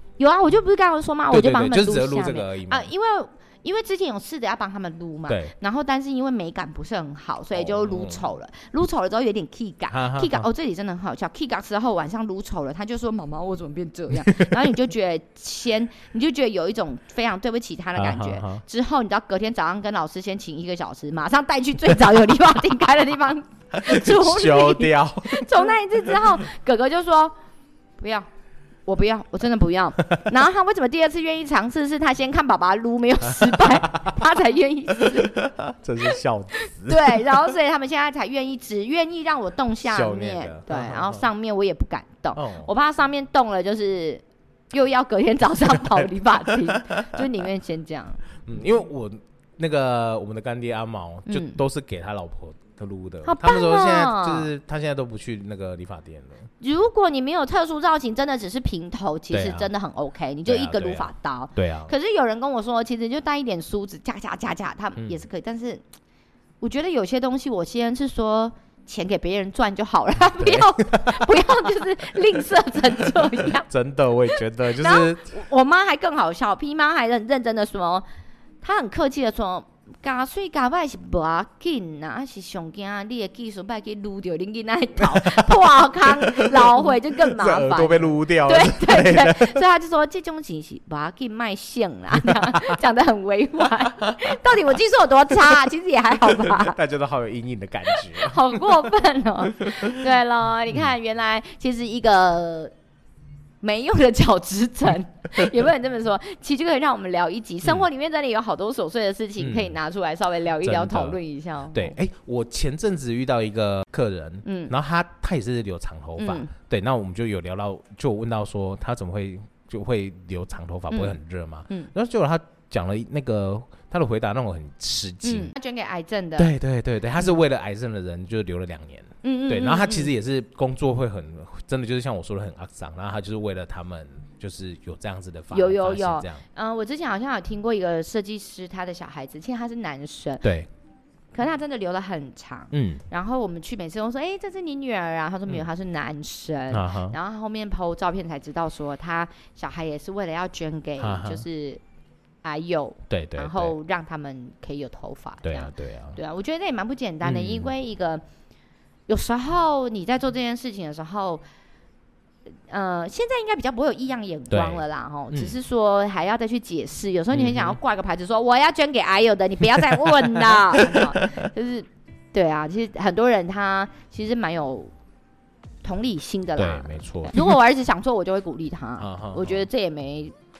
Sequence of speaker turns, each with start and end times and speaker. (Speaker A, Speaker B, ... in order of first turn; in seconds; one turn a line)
Speaker A: 0.2-27.3
Speaker B: 1.3-2.9
Speaker B: 5.3-5.5
Speaker B: 7.5-8.2
Speaker B: 9.9-10.5
Speaker B: 14.1-14.6
Speaker B: 18.0-18.6
Speaker B: 23.8-26.4
Speaker A: 28.0-28.3
Speaker A: 28.9-35.5
Speaker B: 33.3-34.2
Speaker B: 35.0-37.5
Speaker A: 36.9-48.2
Speaker B: 39.8-41.3
Speaker B: 42.4-42.7
Speaker B: 45.7-47.3
Speaker B: 48.5-56.5
Speaker A: 51.3-51.6
Speaker A: 53.2-54.5
Speaker A: 56.6-65.8
Speaker B: 59.3-59.7
Speaker B: 60.5-61.9
Speaker A: 66.6-73.7
Speaker B: 70.4-71.7
Speaker B: 73.2-75.3
Speaker A: 74.7-78.0
Speaker A: 78.6-96.8
Speaker B: 85.0-89.6
Speaker B: 92.2-92.8
Speaker B: 94.1-94.3
Speaker B: 96.2-98.6
Speaker A: 97.9-102.7
Speaker B: 99.6-100.0
Speaker A: 103.6-112.0
Speaker B: 109.4-109.8
Speaker B: 110.6-111.2
Speaker B: 111.7-125.5
Speaker A: 114.4-114.7
Speaker A: 116.2-116.5
Speaker A: 120.9-121.2
Speaker A: 125.2-126.5
Speaker B: 126.4-136.4
Speaker A: 129.2-130.1
Speaker A: 135.5-140.5
Speaker B: 140.4-140.7
Speaker A: 141.3-151.8
Speaker B: 142.7-143.0
Speaker B: 146.7-147.2
Speaker B: 151.0-151.4
Speaker A: 152.4-158.2
Speaker B: 153.1-153.8
Speaker B: 155.4-156.2
Speaker B: 157.2-157.7
Speaker A: 159.1-161.4
Speaker A: 162.7-174.9
Speaker B: 164.5-165.6
Speaker B: 167.3-167.8
Speaker B: 169.8-171.2
Speaker A: 175.8-180.3
Speaker B: 176.6-177.6
Speaker B: 179.0-179.7